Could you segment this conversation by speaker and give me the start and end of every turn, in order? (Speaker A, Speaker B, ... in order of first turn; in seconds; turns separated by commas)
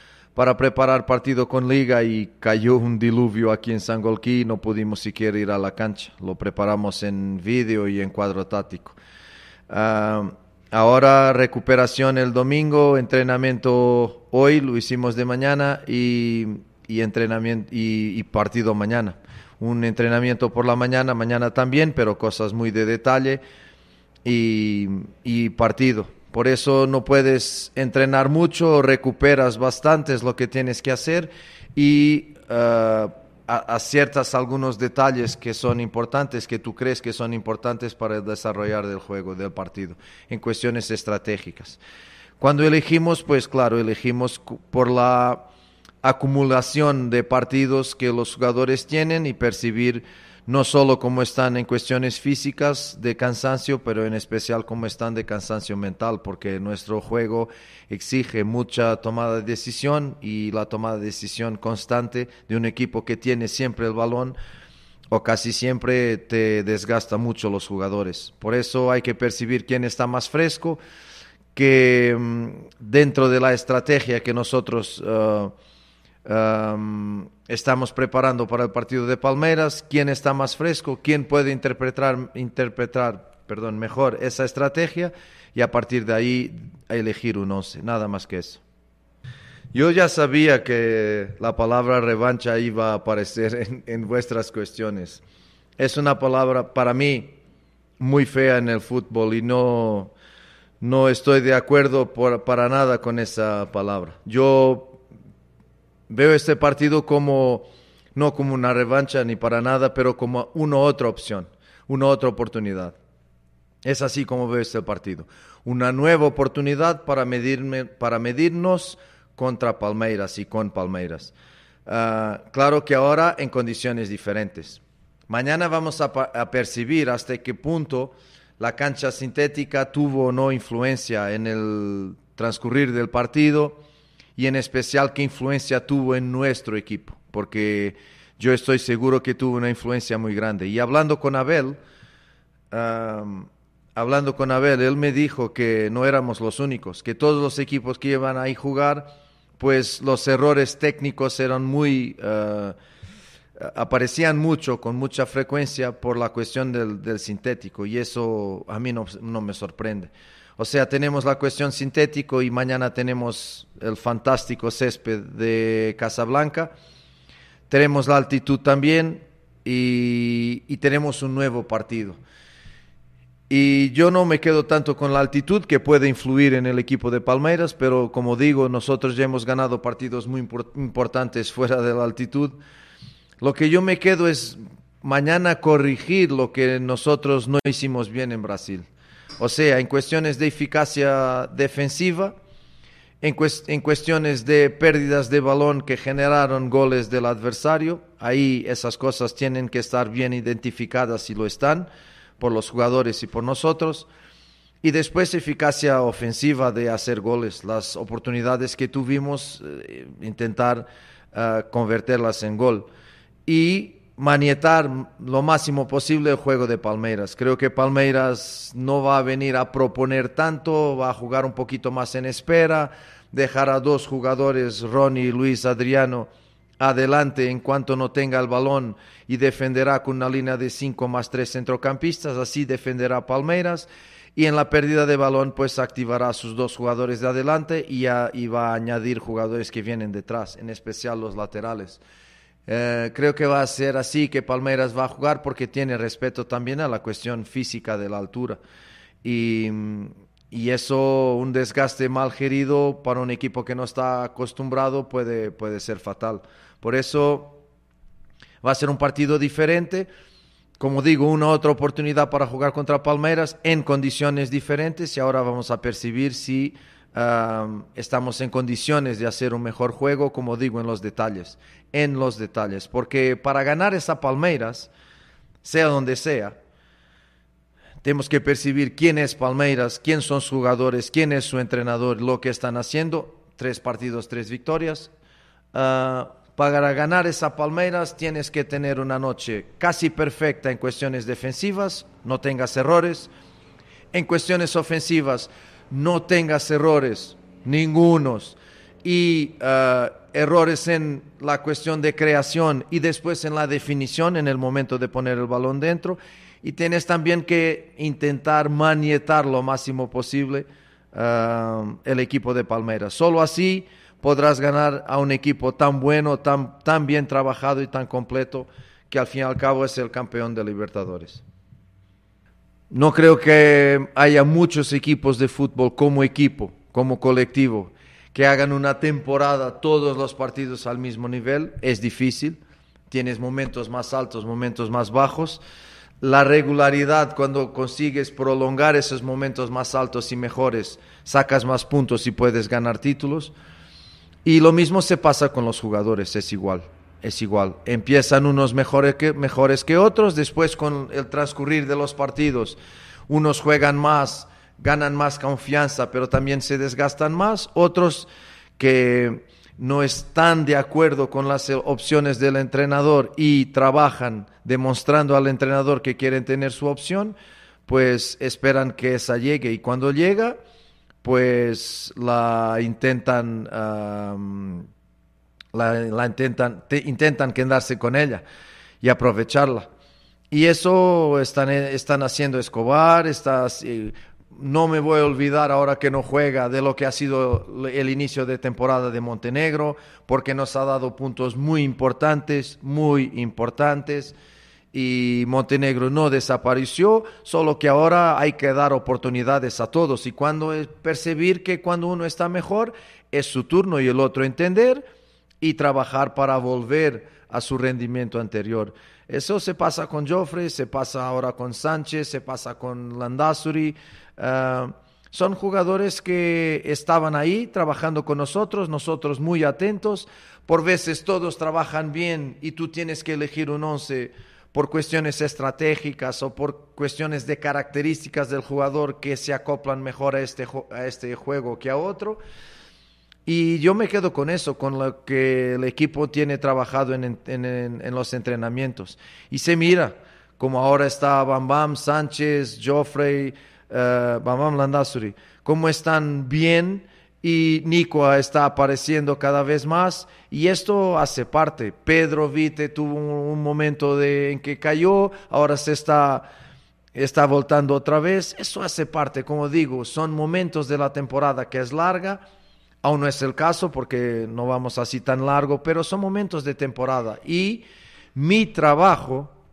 Speaker A: 0.3-9.0, Speaker A: 9.7-23.4, Speaker A: 24.2-41.8, Speaker A: 42.4-45.5, Speaker A: 46.0-64.4, Speaker A: 65.1-70.8, Speaker A: 71.5-75.5, Speaker A: 76.2-88.6, Speaker A: 89.7-95.2, Speaker A: 95.8-97.3, Speaker A: 98.0-100.1, Speaker A: 100.8-105.0, Speaker A: 106.1-113.0, Speaker A: 113.8-121.3, Speaker A: 121.9-133.8, Speaker A: 134.4-141.8, Speaker A: 142.7-152.8, Speaker A: 153.6-166.7, Speaker A: 167.7-172.2, Speaker A: 173.5-182.5, Speaker A: 183.4-188.9, Speaker A: 189.4-192.4, Speaker A: 193.2-204.1, Speaker A: 204.8-212.9, Speaker A: 213.4-242.0, Speaker A: 242.7-248.6, Speaker A: 249.2-257.6, Speaker A: 258.6-260.1, Speaker A: 260.8-274.9, Speaker A: 275.6-276.6, Speaker A: 278.0-285.1, Speaker A: 285.7-293.3, Speaker A: 294.1-321.4, Speaker A: 322.9-332.6, Speaker A: 333.1-335.6, Speaker A: 336.2-343.5, Speaker A: 344.4-352.8, Speaker A: 353.3-367.4, Speaker A: 367.9-370.6, Speaker A: 371.2-374.9, Speaker A: 375.7-378.4, Speaker A: 379.0-379.9, Speaker A: 380.5-394.3, Speaker A: 394.9-405.1, Speaker A: 405.6-432.4, Speaker A: 433.4-456.5, Speaker A: 457.1-462.4, Speaker A: 463.0-469.5